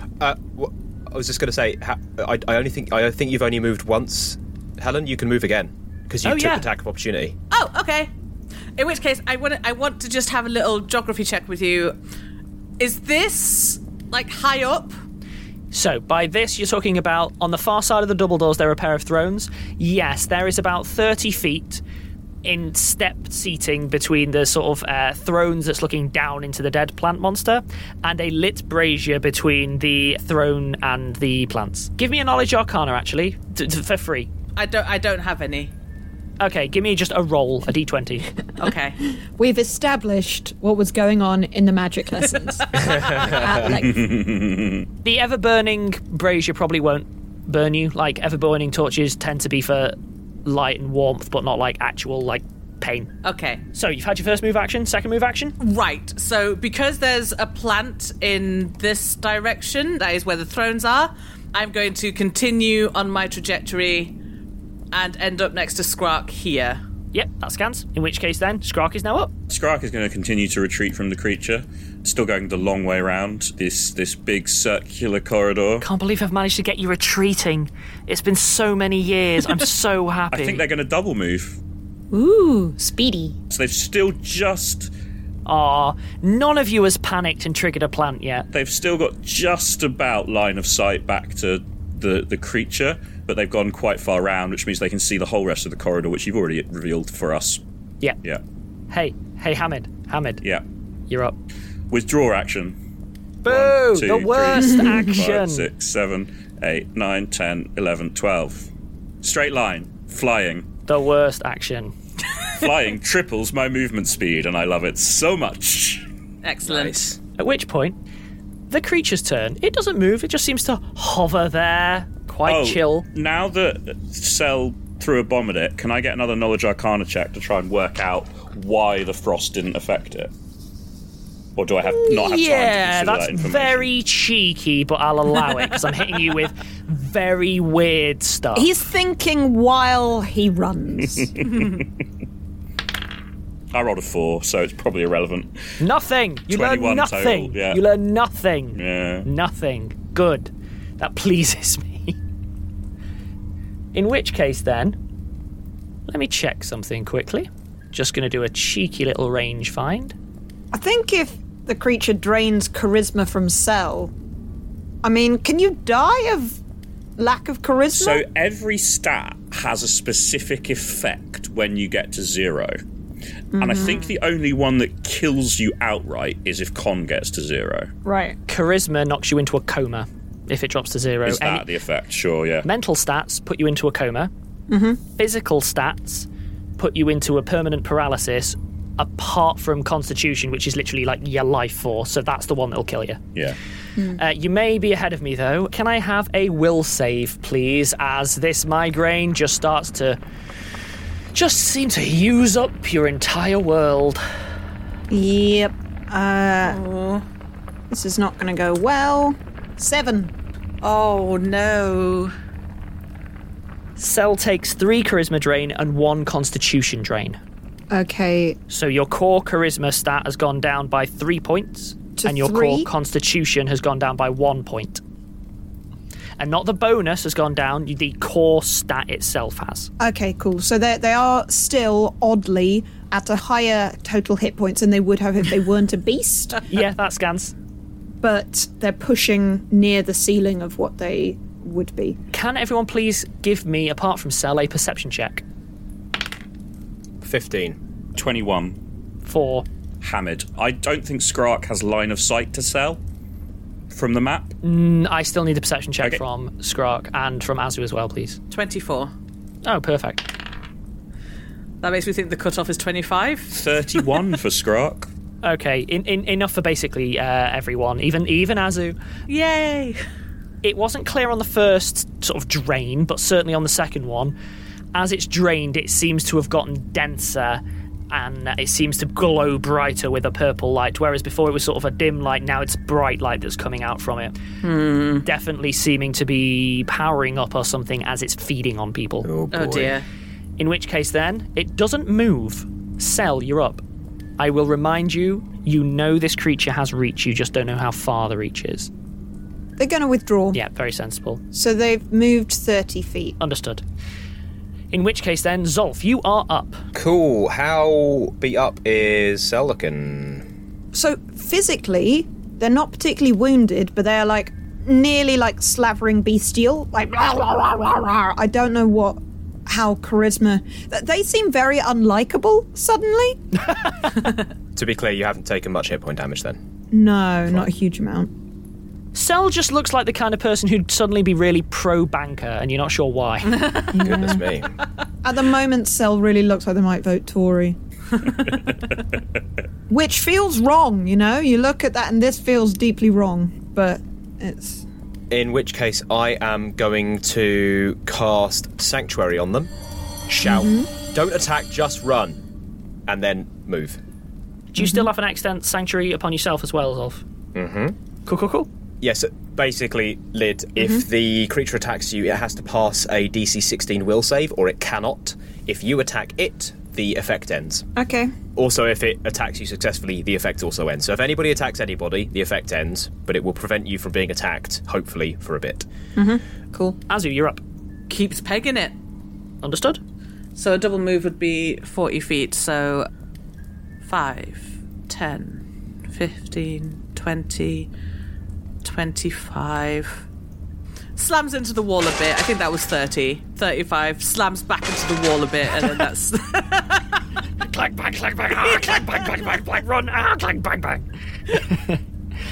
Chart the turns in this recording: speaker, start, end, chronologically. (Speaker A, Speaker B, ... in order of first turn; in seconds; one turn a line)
Speaker A: 0.2-7.3
Speaker B: 6.2-6.7
Speaker C: 7.5-8.1
Speaker C: 8.8-12.0
Speaker C: 12.8-14.9
Speaker B: 15.7-21.8
Speaker B: 22.4-34.3
Speaker C: 34.5-35.7
Speaker B: 36.4-38.4
Speaker C: 38.6-39.0
Speaker D: 39.2-44.1
Speaker E: 43.8-44.9
Speaker B: 45.0-53.1
Speaker C: 53.2-53.6
Speaker B: 53.7-55.5
Speaker C: 55.6-64.2
Speaker C: 64.9-66.8
Speaker B: 67.1-69.3
Speaker E: 69.5-75.8
Speaker B: 75.8-80.6
Speaker E: 80.3-81.6
Speaker D: 82.1-83.3
Speaker E: 83.5-84.9
Speaker B: 85.5-88.5
Speaker E: 88.5-97.6
Speaker B: 98.9-100.4
Speaker B: 101.1-101.3
Speaker E: 101.9-102.8
Speaker B: 103.4-105.7
Speaker E: 103.5-108.7
Speaker E: 109.2-110.7
Speaker B: 110.9-111.9
Speaker E: 112.5-116.0
Speaker C: 116.4-117.1
Speaker A: 116.7-117.2
Speaker B: 117.4-118.0
Speaker B: 118.7-123.0
Speaker E: 122.5-130.3
Speaker E: 131.6-133.9
Speaker B: 131.8-138.7
Speaker D: 138.5-141.4
Speaker E: 141.4-141.8
Speaker E: 143.7-145.6
Speaker B: 145.8-152.2
Speaker E: 146.5-147.8
Speaker E: 148.8-149.2
Speaker B: 153.9-155.0
Speaker B: 156.1-160.1
Speaker D: 160.7-164.1
Speaker D: 165.0-166.6
Speaker D: 167.2-168.2
Speaker E: 167.9-172.8
Speaker D: 173.5-174.1
Speaker E: 173.6-177.9
Speaker D: 178.0-178.3
Speaker B: 178.5-181.7
Speaker E: 181.2-182.7
Speaker B: 182.6-184.3
Speaker D: 184.7-185.0
Speaker B: 185.2-193.2
Speaker B: 194.1-200.2
Speaker B: 201.3-204.2
Speaker D: 205.1-206.8
Speaker C: 206.6-207.2
Speaker D: 207.9-210.3
Speaker C: 210.8-212.3
Speaker B: 214.0-217.4
Speaker D: 217.9-218.6
Speaker B: 218.7-225.0
Speaker D: 222.2-222.9
Speaker B: 226.4-229.9
Speaker D: 230.0-236.6
Speaker B: 236.7-237.5
Speaker D: 238.2-242.2
Speaker B: 242.3-245.4
Speaker A: 247.2-247.8
Speaker E: 248.2-248.8
Speaker B: 249.2-249.6
Speaker E: 250.0-253.0
Speaker E: 253.9-254.6
Speaker B: 254.6-258.4
Speaker C: 258.5-259.1
Speaker B: 259.6-260.4
Speaker C: 261.8-263.6
Speaker E: 263.5-265.1
Speaker B: 265.4-268.9
Speaker C: 269.3-270.0
Speaker B: 270.6-274.3
Speaker B: 274.9-284.3
Speaker C: 284.6-285.2
Speaker B: 285.2-289.3
Speaker A: 289.2-290.0
Speaker C: 289.5-290.0
Speaker B: 290.6-293.8
Speaker B: 294.4-298.9
Speaker D: 299.8-300.6
Speaker B: 300.5-301.4
Speaker D: 301.5-303.4
Speaker B: 303.4-303.8
Speaker B: 304.9-306.8
Speaker A: 306.9-310.4
Speaker D: 310.9-323.6
Speaker A: 324.7-326.6
Speaker D: 326.9-328.3
Speaker B: 329.1-333.9
Speaker C: 333.5-333.9
Speaker D: 333.9-334.5
Speaker A: 333.9-334.7
Speaker D: 335.2-337.8
Speaker D: 339.9-344.8
Speaker A: 345.3-349.7
Speaker A: 350.3-352.4
Speaker D: 350.4-350.9
Speaker A: 353.1-354.0
Speaker B: 354.7-357.2
Speaker D: 354.8-355.1
Speaker A: 357.5-357.9
Speaker B: 358.2-358.7
Speaker A: 359.0-367.9
Speaker D: 367.9-368.3
Speaker A: 368.5-375.8
Speaker D: 376.1-377.0
Speaker B: 377.1-377.6
Speaker C: 378.1-378.9
Speaker B: 379.6-380.0
Speaker C: 380.5-383.1
Speaker C: 384.0-387.9
Speaker C: 388.8-390.2
Speaker C: 391.1-397.2
Speaker B: 397.6-402.0